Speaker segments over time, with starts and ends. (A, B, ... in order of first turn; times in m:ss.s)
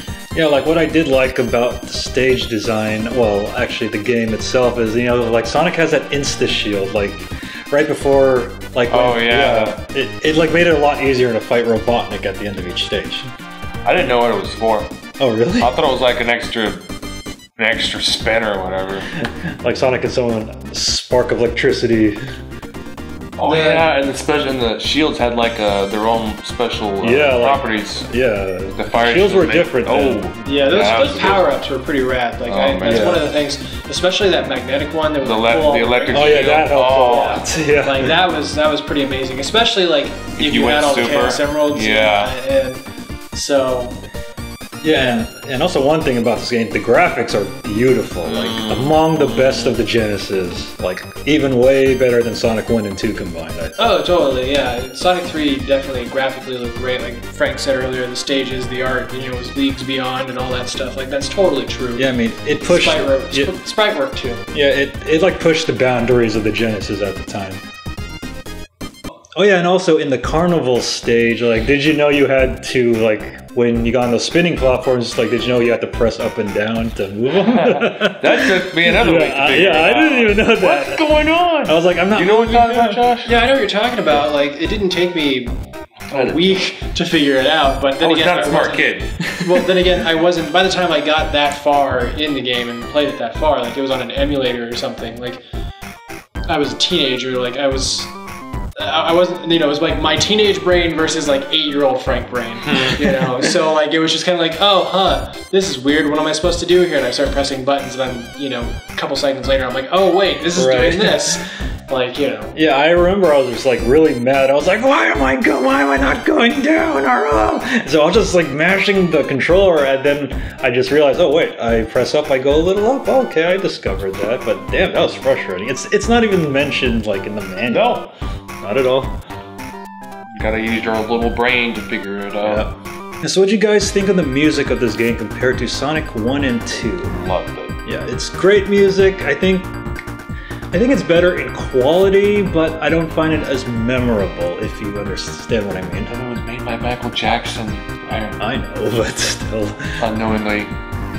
0:00.3-0:13.3 A
0:08.9-0:09.8 B
0:13.8-0:14.9 B
0:15.2-0:15.7 A
0:15.6-0:16.8 B
0:17.6-0:19.1 B
0:19.2-0:22.2 A
0:23.4-0:28.1 B
0:23.4-0:23.9 C
0:27.0-0:30.3 A
0:28.7-0:31.5 B
0:30.4-0:36.5 C
0:32.5-0:33.3 B
0:32.8-0:33.2 A
0:35.2-0:37.4 B
0:36.1-0:38.2 A
0:37.0-0:44.0 C
0:40.4-0:42.3 B
0:44.8-0:54.0 A
0:48.2-0:49.8 B
0:53.8-1:02.1 C
1:02.0-1:03.5 A
1:02.6-1:04.5 C
1:04.5-1:07.6 A
1:09.4-1:21.0 A
1:17.4-1:23.3 B
1:21.6-1:23.0 A
1:23.2-1:25.6 C
1:26.1-1:26.5 B
1:26.1-1:35.4 C
1:28.0-1:29.2 B
1:36.5-1:38.1 C
1:38.8-1:52.5 C
1:42.7-1:43.0 B
1:50.5-1:51.3 A
1:52.5-2:08.1 A
2:07.7-2:08.1 B
2:08.6-2:09.2 A
2:10.3-2:12.7 B
2:12.4-2:12.7 A
2:13.2-2:17.1 A
2:17.0-2:17.8 B
2:17.8-2:19.8 A
2:20.7-2:26.1 A
2:26.1-2:28.4 B
2:28.4-2:30.0 A
2:30.0-2:30.7 B